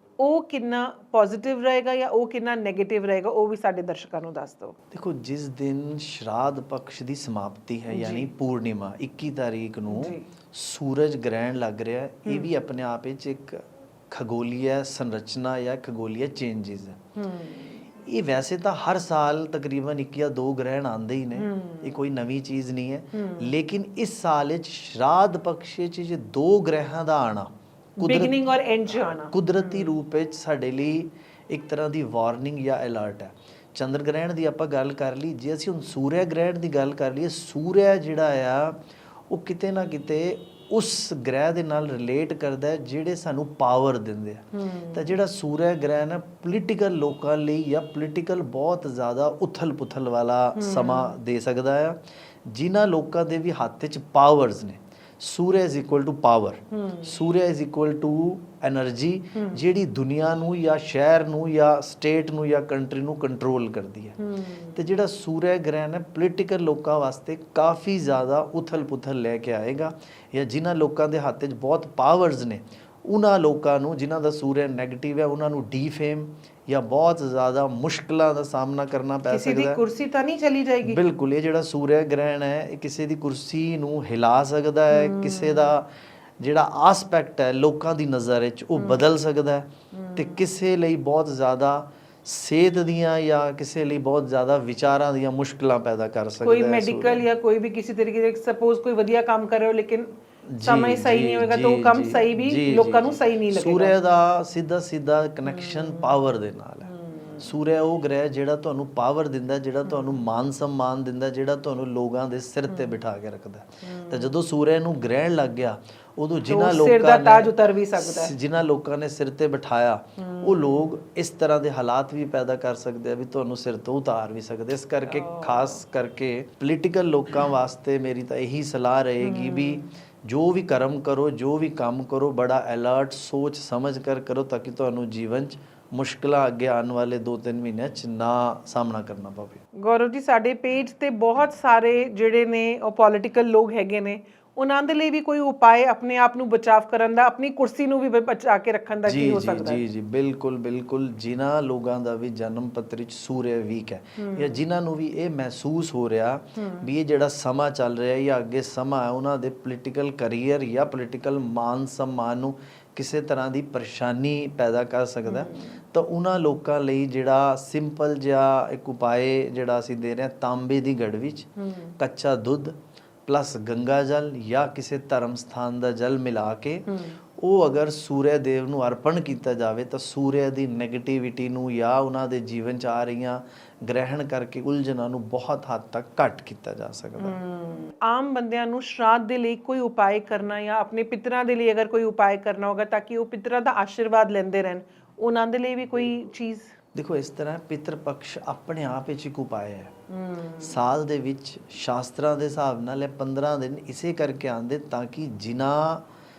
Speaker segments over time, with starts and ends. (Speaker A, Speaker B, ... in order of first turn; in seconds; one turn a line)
Speaker A: 0.2-4.8
Speaker B: 4.9-17.0
Speaker A: 7.9-8.3
Speaker A: 9.9-10.3
Speaker A: 12.3-12.5
Speaker A: 17.2-17.9
Speaker B: 18.0-27.5
Speaker A: 21.4-21.9
Speaker A: 23.1-23.5
Speaker A: 28.0-29.9
Speaker B: 28.0-64.2
Speaker A: 44.5-45.1
Speaker A: 50.5-51.1
Speaker A: 56.7-57.1
Speaker A: 59.4-59.6
Speaker A: 64.2-64.8
Speaker B: 64.7-79.8
Speaker A: 79.3-81.0
Speaker B: 80.8-85.9
Speaker A: 84.9-85.8
Speaker B: 86.4-97.3
Speaker A: 88.8-89.0
Speaker A: 89.9-90.4
Speaker A: 96.4-104.0
Speaker B: 100.5-139.6
Speaker A: 105.5-106.1
Speaker A: 106.8-107.5
Speaker A: 109.8-110.2
Speaker A: 113.8-114.3
Speaker A: 116.5-118.3
Speaker A: 120.2-120.9
Speaker A: 125.1-125.8
Speaker A: 129.2-129.9
Speaker A: 139.8-149.8
Speaker B: 149.1-187.4
Speaker A: 154.2-154.6
Speaker A: 156.6-156.9
Speaker A: 165.2-165.8
Speaker A: 171.6-171.9
Speaker A: 176.9-177.2
Speaker A: 187.2-196.8
Speaker B: 196.9-199.9
Speaker A: 200.1-200.8
Speaker B: 200.6-206.1